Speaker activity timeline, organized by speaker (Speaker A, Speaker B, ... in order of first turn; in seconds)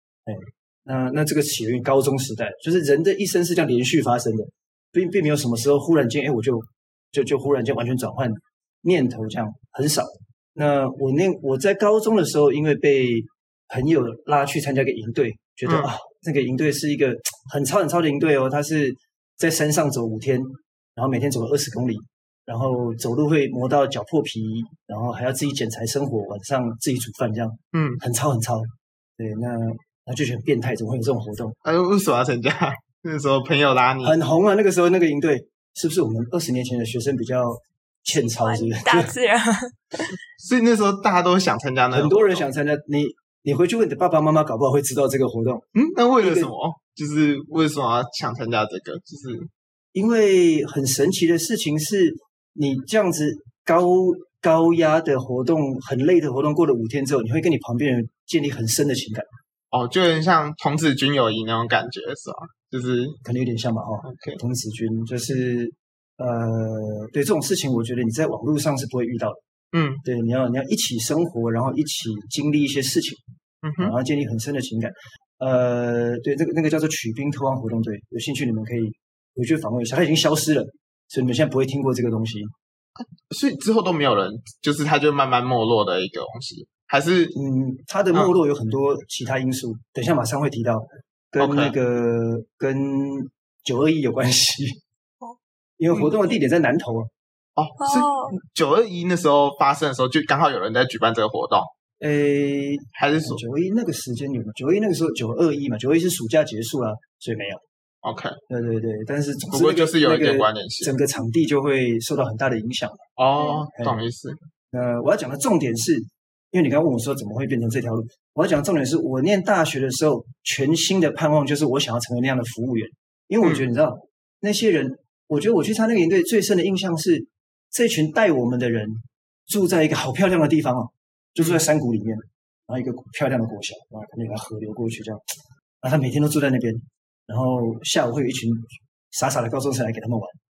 Speaker A: 0.3-31.6, 34.0-39.1, 41.9-45.6, 46.2-46.5, 49.9-59.3, 63.2-69.4, 70.0-73.2, 73.8-82.5, 87.3-94.8, 95.8-97.1, 102.0-107.6, 108.5-113.1, 114.7-135.2, 135.8-140.4
Speaker B: 27.7-28.0, 31.6-34.2, 40.4-42.5, 45.8-49.5, 59.7-63.2, 64.0-64.4, 69.7-70.0, 73.6-73.9, 83.0-87.3, 91.4-91.8, 97.6-101.7, 102.9-103.4, 108.0-108.4, 109.5-110.9, 113.2-114.4, 123.4-123.7
Speaker C: 38.1-40.1, 97.8-98.3